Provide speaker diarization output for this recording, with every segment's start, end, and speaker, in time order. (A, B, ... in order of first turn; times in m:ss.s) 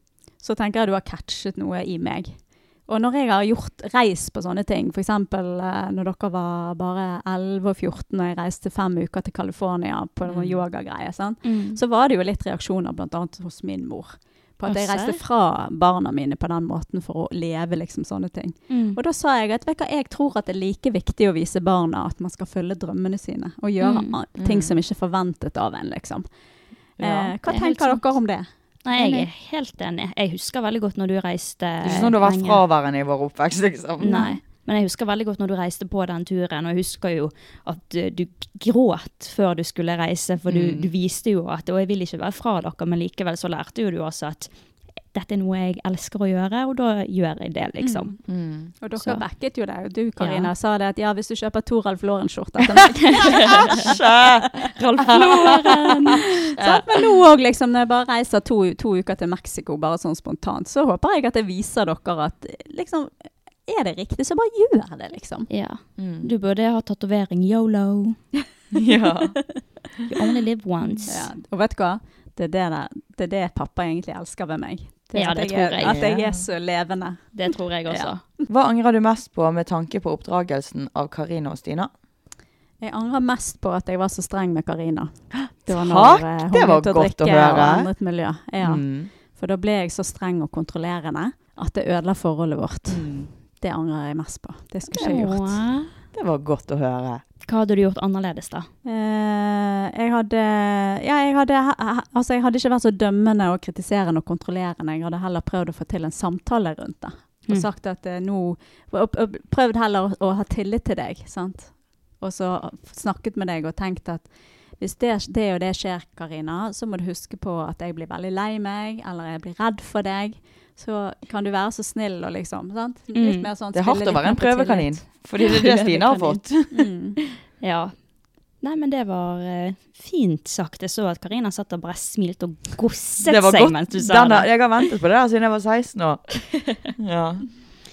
0:00.4-0:26.2 A
0:10.3-0:10.6 B
0:11.4-0:11.8 C
0:14.6-0:15.2 C
0:18.7-0:19.0 C
0:23.8-0:24.2 C
0:24.4-0:24.7 B
0:27.0-0:27.3 B
0:27.0-0:28.4 A
0:27.4-0:28.0 C
0:28.8-0:32.6 C
0:29.0-0:29.3 A
0:31.8-0:34.3 B
0:34.0-0:44.5 C
0:40.5-0:40.9 B
0:45.1-0:48.1 C
0:47.8-0:48.1 A
0:48.3-0:48.7 B
0:48.8-0:53.9 A
0:50.2-0:50.5 C
0:53.0-0:53.9 C
0:53.3-0:56.8 B
0:54.8-0:56.6 C
0:56.6-1:03.1 A
1:03.7-1:05.5 A
1:05.5-1:08.2 C
1:06.0-1:06.3 B
1:08.7-1:09.4 B
1:10.1-1:11.3 C
1:11.1-1:17.3 A
1:15.1-1:16.0 C
1:15.8-1:16.4 B
1:17.3-1:18.2 C
1:17.9-1:18.4 A
1:18.5-1:21.9 B
1:22.8-1:33.0 A
1:25.7-1:27.9 B
1:28.6-1:29.1 B
1:32.9-1:33.3 B
1:33.6-1:35.6 A
1:34.9-1:35.9 C
1:36.1-1:37.2 B
1:37.4-1:38.7 C
1:38.8-1:54.3 A
1:54.8-2:05.0 A
2:03.1-2:03.5 C
2:03.7-2:06.7 B
2:05.4-2:06.4 C
2:06.7-2:07.2 A
2:07.6-2:07.9 C
2:08.6-2:14.5 C
2:13.2-2:16.4 B
2:16.5-2:16.9 C
2:17.0-2:17.5 B